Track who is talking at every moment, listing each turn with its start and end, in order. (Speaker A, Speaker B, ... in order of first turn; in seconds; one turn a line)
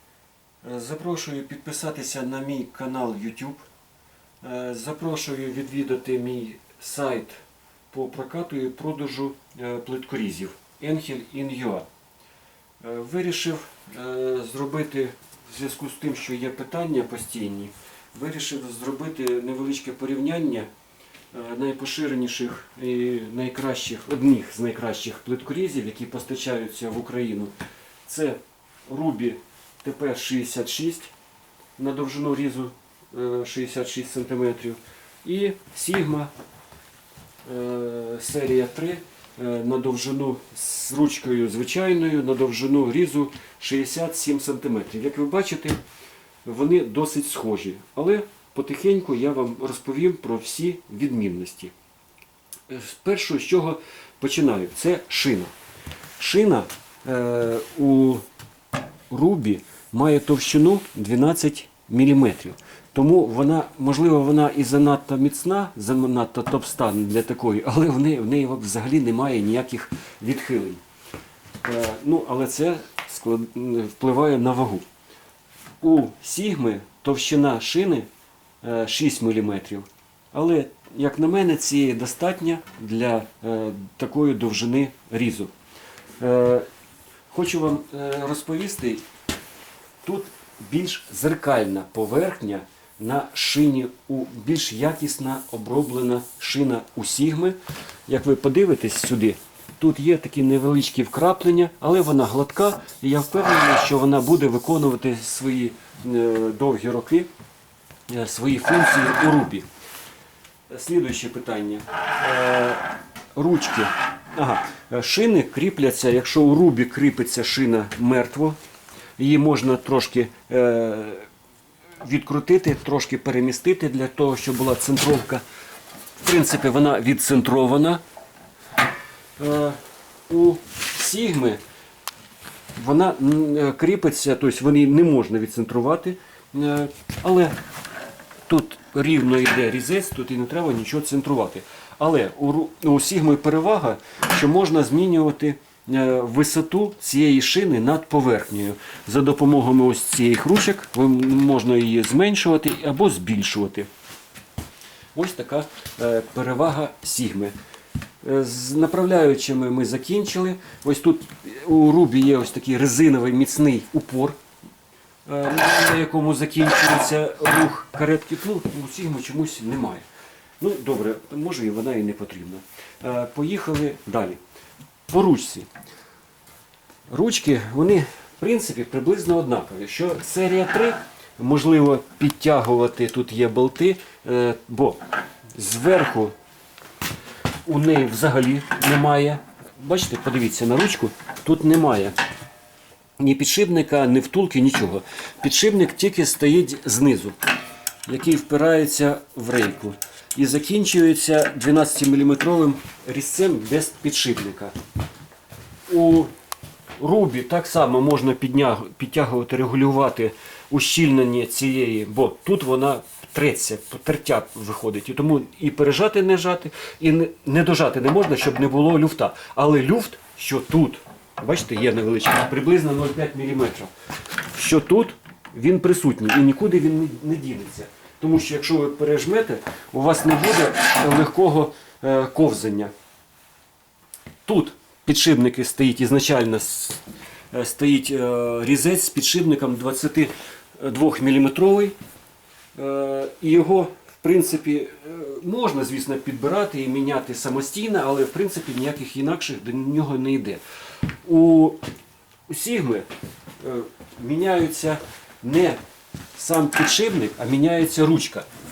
Speaker A: 0.6-3.6
Speaker A: 4.4-7.3
Speaker A: 7.9-11.9
Speaker A: 12.8-20.7
Speaker A: 21.3-27.5
Speaker A: 28.0-31.1
Speaker A: 31.8-36.3
Speaker A: 37.4-45.8
Speaker A: 46.4-51.7
Speaker A: 52.7-55.5
Speaker A: 56.2-58.2
Speaker A: 59.1-70.8
Speaker A: 71.6-74.8
Speaker A: 75.8-78.1
Speaker A: 78.6-85.5
Speaker A: 86.2-86.7
Speaker A: 87.3-89.0
Speaker A: 90.0-107.3
Speaker A: 108.1-109.6
Speaker A: 110.7-118.6
Speaker A: 119.2-121.3
Speaker A: 122.0-125.4
Speaker A: 126.2-128.0
Speaker A: 129.4-131.6
Speaker A: 132.8-137.5
Speaker A: 138.5-153.9
Speaker A: 155.1-157.5
Speaker A: 158.2-164.4
Speaker A: 165.2-170.0
Speaker A: 170.6-174.4
Speaker A: 175.1-175.7
Speaker A: 177.1-185.0
Speaker A: 185.5-186.3
Speaker A: 187.7-192.1
Speaker A: 193.2-197.4
Speaker A: 198.1-204.7
Speaker A: 205.9-206.3
Speaker A: 207.0-223.9
Speaker A: 224.5-232.9
Speaker A: 234.4-237.0
Speaker A: 237.5-241.9
Speaker A: 242.8-250.6
Speaker A: 251.2-251.8
Speaker A: 252.5-253.1
Speaker A: 253.6-255.8
Speaker A: 256.4-258.5